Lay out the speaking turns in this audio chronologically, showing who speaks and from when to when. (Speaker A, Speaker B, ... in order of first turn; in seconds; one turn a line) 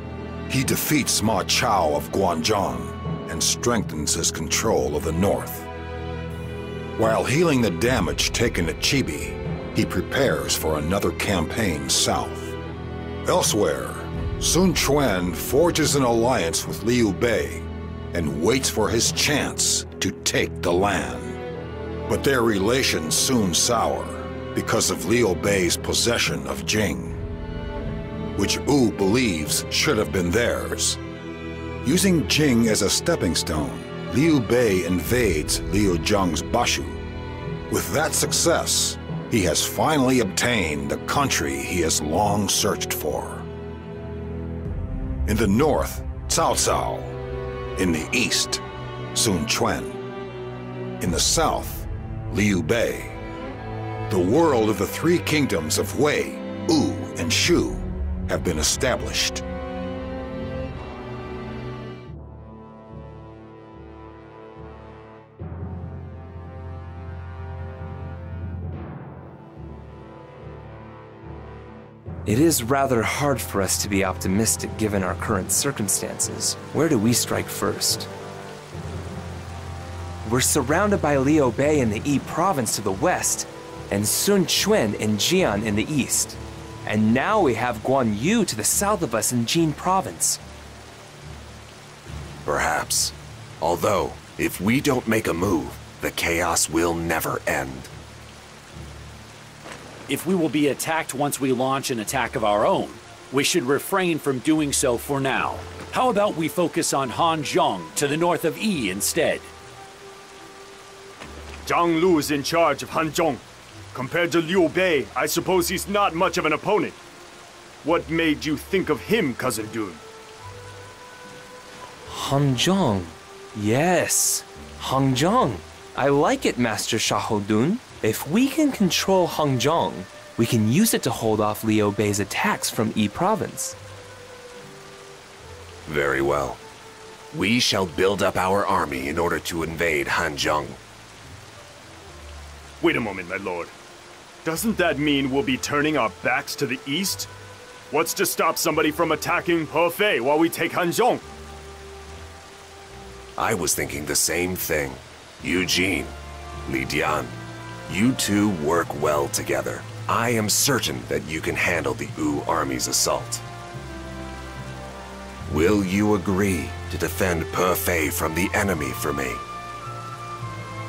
Speaker A: 0.5-5.7
Speaker A: 7.0-12.6
Speaker A: 13.2-21.4
Speaker A: 22.1-27.2
Speaker A: 28.3-31.0
Speaker A: 31.8-37.0
Speaker A: 37.7-43.5
Speaker A: 45.2-47.2
Speaker A: 47.8-48.6
Speaker A: 49.1-50.0
Speaker A: 51.0-53.2
Speaker A: 54.1-59.4
Speaker B: 72.2-78.1
Speaker B: 80.2-90.4
Speaker C: 92.5-97.9
Speaker D: 100.1-109.5
Speaker E: 111.7-113.4
Speaker E: 113.9-117.0
Speaker E: 117.8-120.0
Speaker B: 122.1-133.8
Speaker C: 135.8-136.6
Speaker C: 137.3-140.8
Speaker E: 142.8-143.7
Speaker E: 144.4-147.3
Speaker E: 147.9-151.2
Speaker C: 153.4-163.4
Speaker C: 165.5-169.4